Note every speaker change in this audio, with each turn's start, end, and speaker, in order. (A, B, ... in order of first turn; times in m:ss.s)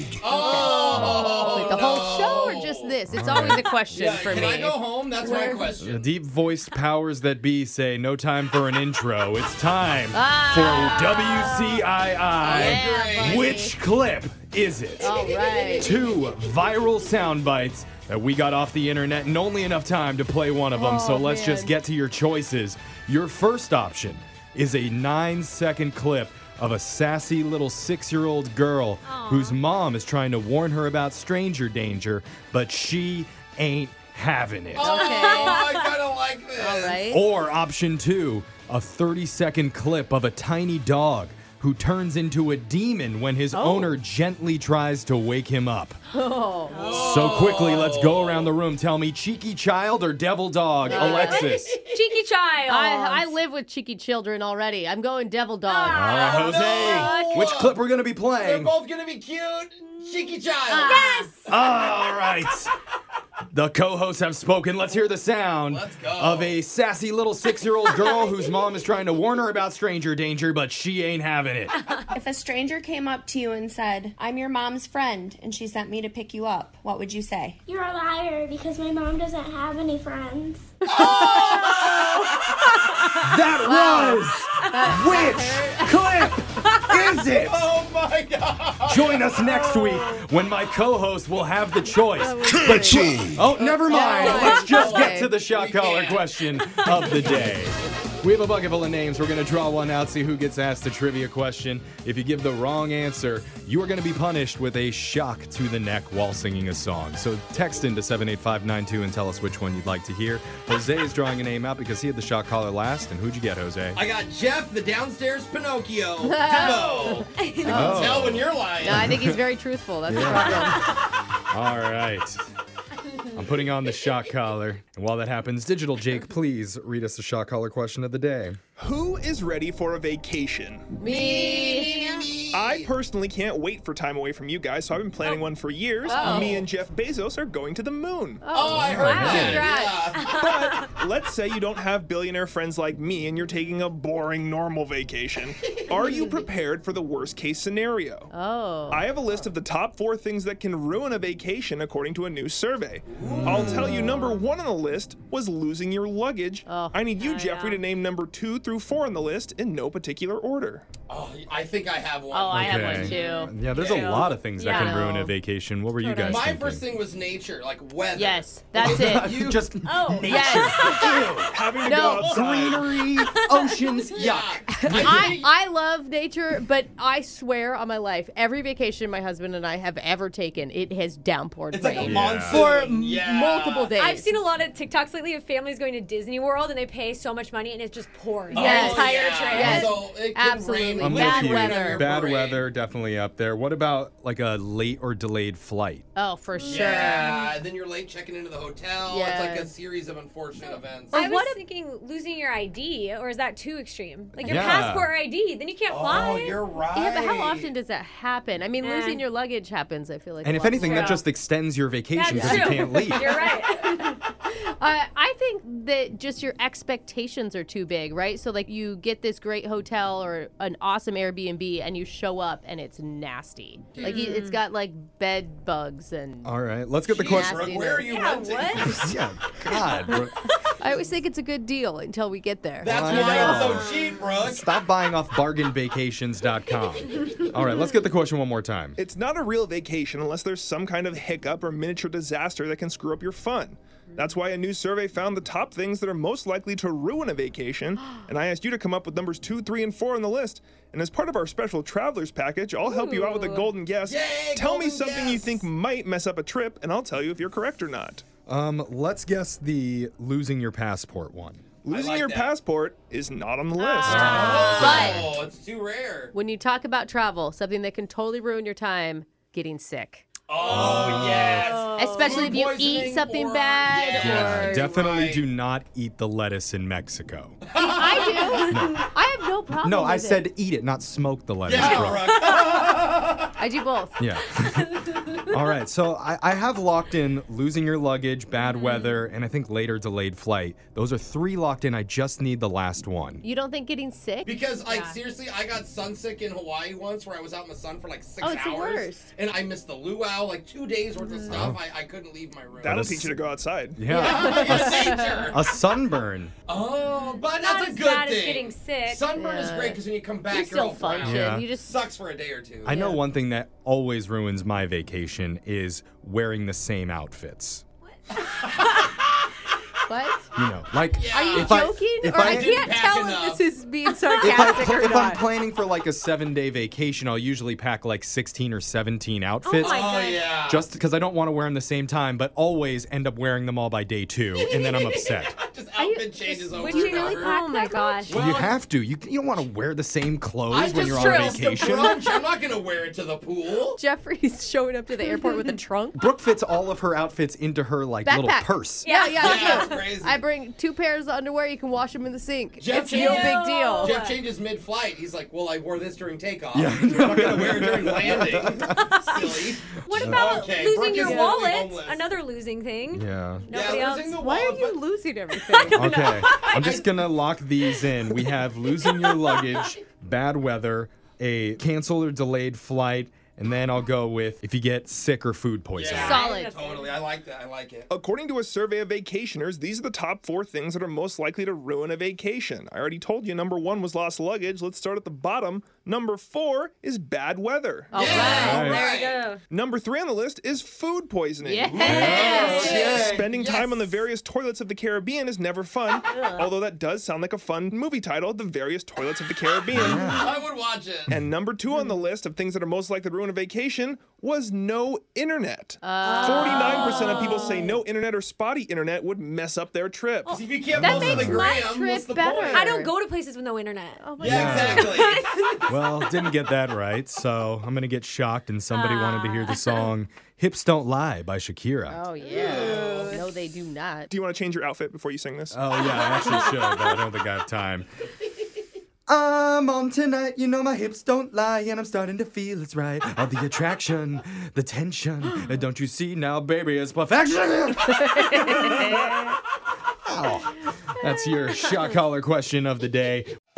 0:00.2-0:03.0 A
0:00.3-0:05.8 B
0:03.1-0:04.6 C
0:03.9-0:06.1 A
0:05.8-0:15.2 C
0:10.1-0:11.9 B
0:12.4-0:13.4 A
0:12.5-0:13.8 B
0:15.0-0:16.0 B
0:15.7-0:35.1 C
0:20.7-0:21.7 B
0:29.0-0:29.6 D
0:34.7-0:37.0 A
0:34.8-0:35.7 B
0:35.0-0:36.0 D
0:36.6-0:37.2 B
0:37.1-0:46.0 C
0:43.5-0:43.9 B
0:46.1-0:46.8 B
0:46.7-0:47.4 D
0:46.7-0:48.6 A
0:46.8-0:51.8 C
0:50.9-0:52.0 A
0:50.9-0:51.4 B
0:50.9-0:53.3 D
0:52.7-0:56.1 B
0:55.7-0:57.4 D
0:55.9-0:58.7 C
0:56.1-0:57.8 A
0:58.3-1:01.5 A
1:00.7-1:01.3 B
1:00.8-1:01.4 D
1:01.5-1:02.7 C
1:03.5-1:11.9 C
1:05.7-1:06.6 A
1:12.1-1:17.6 E
1:17.7-1:20.6 F
1:20.9-1:22.7 A
1:23.2-1:27.7 C
1:23.6-1:26.1 B
1:27.1-1:30.2 A
1:28.9-1:54.0 C
1:32.0-1:35.3 B
1:33.4-1:36.4 A
1:34.2-1:34.6 D
1:37.1-1:37.5 A
1:54.0-1:57.3 A
1:56.2-2:00.9 B
1:56.6-1:58.1 D
1:57.6-1:59.4 C
1:57.9-1:59.1 A
2:00.1-2:00.8 C
2:01.5-2:02.4 C
2:03.4-2:08.6 C
2:08.8-2:11.0 G
2:11.0-2:12.2 B
2:11.0-2:12.9 A
2:12.5-2:18.5 G
2:16.0-2:16.6 B
2:16.1-2:16.4 D
2:16.2-2:16.6 A
2:18.4-2:20.1 B
2:18.5-2:20.3 A
2:18.7-2:19.7 C
2:18.9-2:20.8 D
2:20.2-2:28.3 G
2:26.0-2:26.4 B
2:28.3-2:29.1 B
2:28.9-2:40.9 G
2:33.1-2:33.9 A
2:33.3-2:34.0 C
2:36.7-2:37.0 B
2:37.2-2:37.8 D
2:41.1-2:44.5 A
2:42.3-2:43.6 B
2:42.5-2:46.9 C
2:43.0-2:45.0 D
2:44.6-2:45.3 B
2:46.0-2:46.6 D
2:46.2-2:49.7 A
2:48.2-2:49.6 B
2:48.8-2:55.4 C
2:49.8-2:51.4 D
2:50.2-2:51.2 B
2:51.5-2:52.9 G
2:51.8-2:52.4 A
2:51.8-2:52.3 B
2:53.7-2:54.0 D
2:54.1-2:55.5 A
2:54.8-3:04.4 B
3:01.7-3:03.9 A
3:02.0-3:02.6 C
3:04.0-3:10.1 D
3:08.5-3:12.6 A
3:08.6-3:12.1 B
3:11.0-3:16.0 C
3:16.2-3:17.5 B
3:16.7-3:21.2 A
3:19.0-3:19.7 B
3:20.7-3:26.6 D
3:21.1-3:21.6 B
3:24.4-3:25.1 C
3:25.9-3:27.7 A
3:26.8-3:31.3 B
3:28.8-3:29.2 D
3:30.4-3:33.4 C
3:30.8-3:31.2 D
3:32.1-3:34.2 D
3:32.3-3:33.6 B
3:34.4-3:46.6 B
3:43.9-3:44.2 A
3:44.0-3:44.6 D
3:46.4-3:47.6 C
3:47.0-3:49.1 A
3:47.1-3:48.2 B
3:48.1-3:49.0 D
3:48.8-3:50.3 C
3:50.8-3:53.8 B
3:52.8-3:54.7 A
3:52.8-3:59.0 C
3:53.1-3:54.1 D
3:59.0-4:18.2 G
4:12.9-4:13.7 D
4:14.0-4:15.7 A
4:18.5-4:21.6 C
4:21.8-4:24.4 G
4:21.9-4:22.5 A
4:23.8-4:25.2 B
4:24.0-4:25.4 C
4:24.1-4:26.4 A
4:26.3-4:34.9 B
4:30.5-4:35.4 A
4:30.6-4:31.8 C
4:34.1-4:37.6 C
4:37.7-4:38.5 A
4:37.8-4:40.5 B
4:38.6-4:39.1 C
4:39.8-4:42.3 C
4:41.7-4:43.6 A
4:41.8-4:42.8 D
4:43.6-4:44.2 B
4:44.2-4:53.4 C
4:48.7-4:49.2 D
4:53.4-4:55.2 B
4:54.4-5:03.0 A
4:58.4-4:59.3 B
5:01.2-5:01.7 D
5:01.5-5:01.8 C
5:02.8-5:04.1 G
5:02.8-5:03.3 C
5:04.0-5:06.5 C
5:04.1-5:05.5 B
5:04.1-5:05.6 A
5:06.7-5:13.0 A
5:07.0-5:09.3 D
5:09.3-5:12.1 B
5:11.2-5:11.7 C
5:12.8-5:13.2 B
5:12.8-5:17.8 C
5:18.5-5:19.3 A
5:20.1-5:20.5 B
5:20.6-5:22.8 C
5:21.2-5:23.7 A
5:21.2-5:25.4 B
5:24.1-5:24.8 D
5:24.4-5:35.6 C
5:29.6-5:30.5 D
5:29.8-5:30.9 A
5:34.6-5:37.7 A
5:36.0-5:38.3 B
5:36.0-5:38.4 D
5:38.2-5:38.8 A
5:38.3-5:42.2 C
5:40.7-5:44.0 A
5:41.1-5:42.3 D
5:43.9-5:46.2 B
5:46.2-5:49.1 C
5:48.2-5:54.2 B
5:49.0-5:50.1 D
5:49.4-5:50.4 A
5:52.8-6:02.3 A
5:52.9-5:54.4 D
5:56.7-5:59.0 C
5:58.9-6:04.5 D
6:00.1-6:00.4 C
6:01.1-6:01.6 B
6:03.1-6:03.7 C
6:03.7-6:05.0 A
6:04.4-6:06.0 B
6:05.7-6:06.7 D
6:05.9-6:16.4 C
6:06.1-6:07.4 A
6:08.9-6:09.6 D
6:15.9-6:18.1 A
6:16.1-6:17.2 D
6:16.1-6:16.8 B
6:18.1-6:32.0 G
6:28.1-6:29.1 B
6:28.1-6:29.4 A
6:28.4-6:29.0 C
6:28.6-6:29.6 D
6:31.6-6:33.1 B
6:31.8-6:34.2 A
6:32.0-6:33.4 C
6:32.6-6:40.6 G
6:36.3-6:36.7 D
6:39.9-6:40.6 C
6:40.3-6:41.4 A
6:41.3-6:50.6 G
6:46.0-6:47.9 B
6:46.2-6:48.0 D
6:50.5-6:52.9 A
6:50.9-6:51.7 C
6:51.0-6:53.1 B
6:51.1-6:51.9 D
6:52.6-6:54.3 D
6:54.2-6:55.4 B
6:54.4-6:55.8 A
6:54.4-6:55.2 C
6:54.9-6:56.2 D
6:55.8-7:02.2 C
6:58.9-7:00.0 D
7:02.1-7:04.3 B
7:02.4-7:03.5 A
7:04.3-7:06.6 G
7:05.7-7:08.1 C
7:09.3-7:19.3 C
7:20.3-7:23.5 C